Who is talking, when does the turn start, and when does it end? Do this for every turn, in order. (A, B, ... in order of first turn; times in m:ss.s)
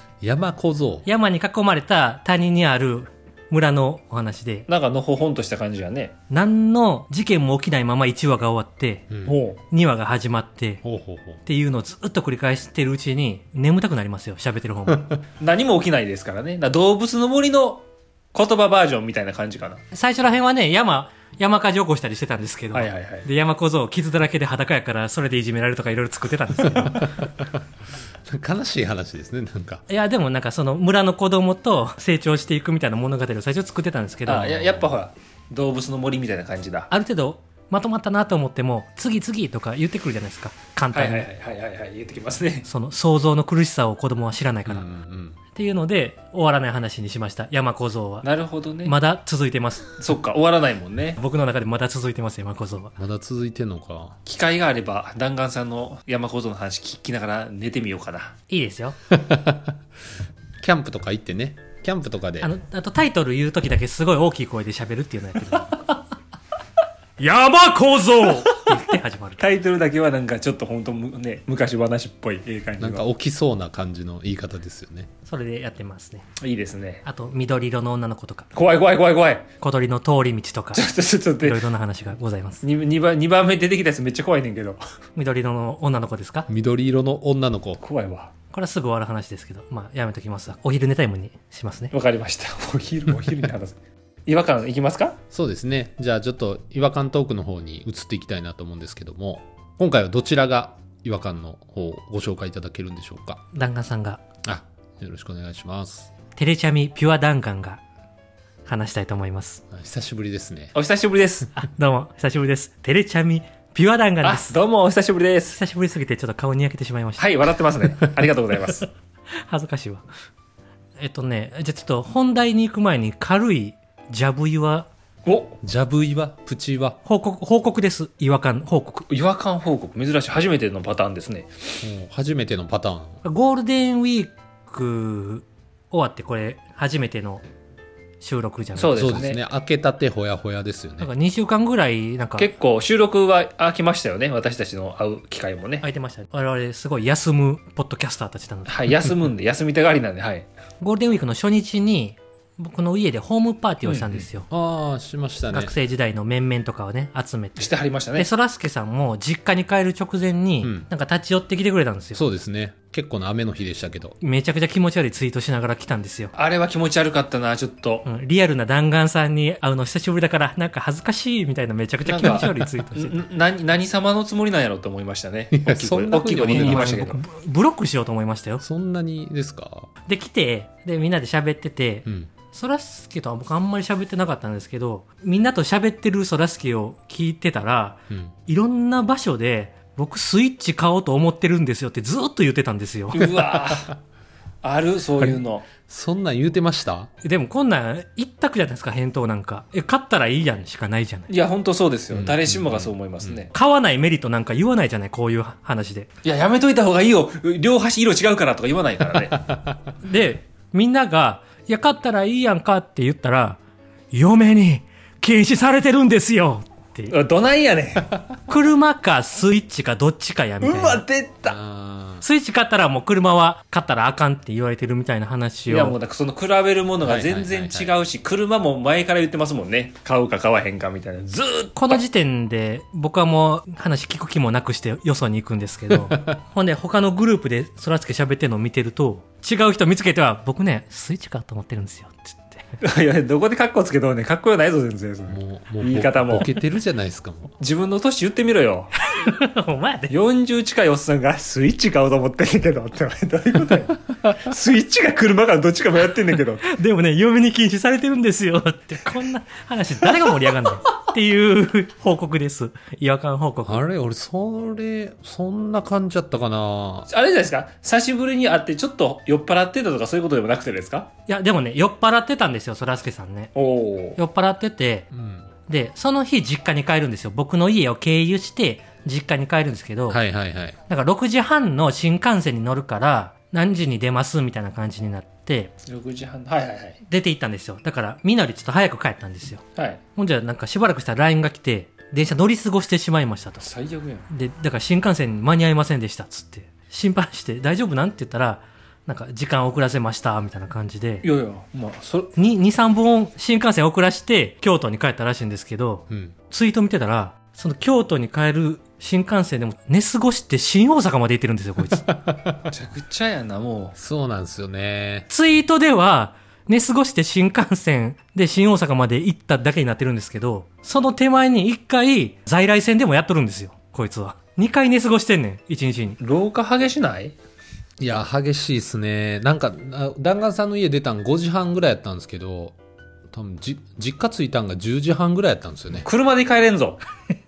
0:00.2-0:01.1 A
0:01.0-0:04.7 B
0:04.7-0:06.1 C
0:06.3-0:09.1 B
0:09.1-0:09.4 A
0:09.2-0:09.6 C
0:09.7-0:10.8 B
0:10.8-0:11.4 A
0:11.4-0:15.1 B
0:15.4-0:19.8 C
0:19.9-0:27.2 B
0:22.7-0:23.3 C
0:26.7-0:27.6 A
0:28.3-0:29.8 A
0:29.9-0:34.9 B
0:34.3-0:36.9 C
0:36.9-0:41.3 B
0:40.9-0:42.7 C
0:42.6-0:44.8 B
0:44.7-0:45.4 A
0:45.5-0:48.3 B
0:48.2-0:49.0 C
0:48.8-0:49.9 B
0:50.0-0:51.2 C
0:51.2-0:53.0 B
0:53.0-0:54.2 A
0:54.2-0:58.3 C
0:58.5-0:59.0 B
0:59.1-0:59.8 A
1:00.6-1:02.5 A
1:02.4-1:05.9 B
1:07.2-1:09.4 B
1:09.4-1:13.0 C
1:12.8-1:15.1 A
1:15.2-1:16.2 B
1:16.4-1:17.0 C
1:17.0-1:18.5 B
1:18.5-1:19.4 C
1:19.6-1:20.8 B
1:20.7-1:21.6 C
1:21.4-1:22.6 B
1:22.6-1:24.8 C
1:25.2-1:26.5 B
1:26.5-1:27.8 A
1:27.8-1:28.3 C
1:28.5-1:31.9 B
1:31.9-1:35.2 C
1:35.3-1:43.4 A
1:43.5-1:44.2 B
1:44.4-1:46.1 A
1:46.3-1:47.8 B
1:48.6-1:49.6 B
1:49.7-1:50.7 A
1:50.7-1:51.5 C
1:51.5-1:54.6 B
1:54.2-1:55.6 C
1:55.5-1:57.3 B
1:57.2-1:58.9 C
1:59.5-2:00.0 B
2:01.0-2:04.9 B
2:05.2-2:05.6 C
2:05.6-2:07.0 A
2:07.0-2:09.1 B
2:09.1-2:11.8 C
2:11.8-2:13.2 A
2:13.2-2:17.4 B
2:18.2-2:19.1 B
2:18.8-2:19.4 C
2:18.9-2:21.1 A
2:21.0-2:22.5 B
2:22.4-2:25.8 C
2:25.8-2:28.7 B
2:28.7-2:30.5 C
2:30.8-2:34.5 B
2:33.8-2:34.2 C
2:34.5-2:35.7 A
2:35.5-2:42.2 B
2:37.6-2:38.3 C
2:40.6-2:40.9 A
2:42.1-2:44.2 A
2:44.2-2:46.3 B
2:46.4-2:48.0 C
2:48.0-2:53.2 B
2:52.0-2:57.2 C
2:52.2-2:52.7 A
2:55.5-2:57.0 A
2:56.5-2:58.6 B
2:58.6-2:59.9 A
3:00.0-3:13.4 B
3:02.0-3:02.3 A
3:13.1-3:13.9 C
3:14.6-3:15.6 C
3:15.2-3:17.1 A
3:17.2-3:21.3 B
3:21.3-3:23.5 C
3:22.1-3:23.4 A
3:23.5-3:26.1 B
3:26.2-3:29.4 C
3:29.3-3:29.9 A
3:30.0-3:33.6 B
3:34.1-3:37.1 B
3:37.1-3:38.1 C
3:38.5-3:41.0 B
3:40.6-3:41.6 C
3:41.4-3:42.2 A
3:42.2-3:46.0 B
3:45.7-3:52.0 C
3:47.0-3:48.0 A
3:51.8-4:02.6 B
3:55.9-3:56.4 A
4:02.8-4:06.5 C
4:05.3-4:07.5 A
4:07.6-4:08.9 C
4:09.1-4:10.1 B
4:10.1-4:16.6 C
4:16.6-4:23.8 B
4:23.6-4:27.1 A
4:27.1-4:31.1 C
4:31.3-4:33.5 B
4:33.6-4:34.2 C
4:34.2-4:35.1 B
4:35.1-4:35.5 A
4:35.7-4:40.2 B
4:40.1-4:40.8 A
4:40.9-4:45.7 B
4:45.8-4:47.0 C
4:47.1-4:49.6 B
4:50.2-4:53.7 B
4:53.6-4:54.3 C
4:54.3-5:01.2 B
5:01.2-5:02.3 C
5:02.4-5:12.0 B
5:06.1-5:06.3 A
5:12.0-5:12.7 A
5:12.7-5:13.9 C
5:14.0-5:15.3 A
5:15.3-5:26.2 B
5:26.2-5:27.3 C
5:28.0-5:32.8 A
5:33.3-5:36.1 A
5:36.0-5:37.0 C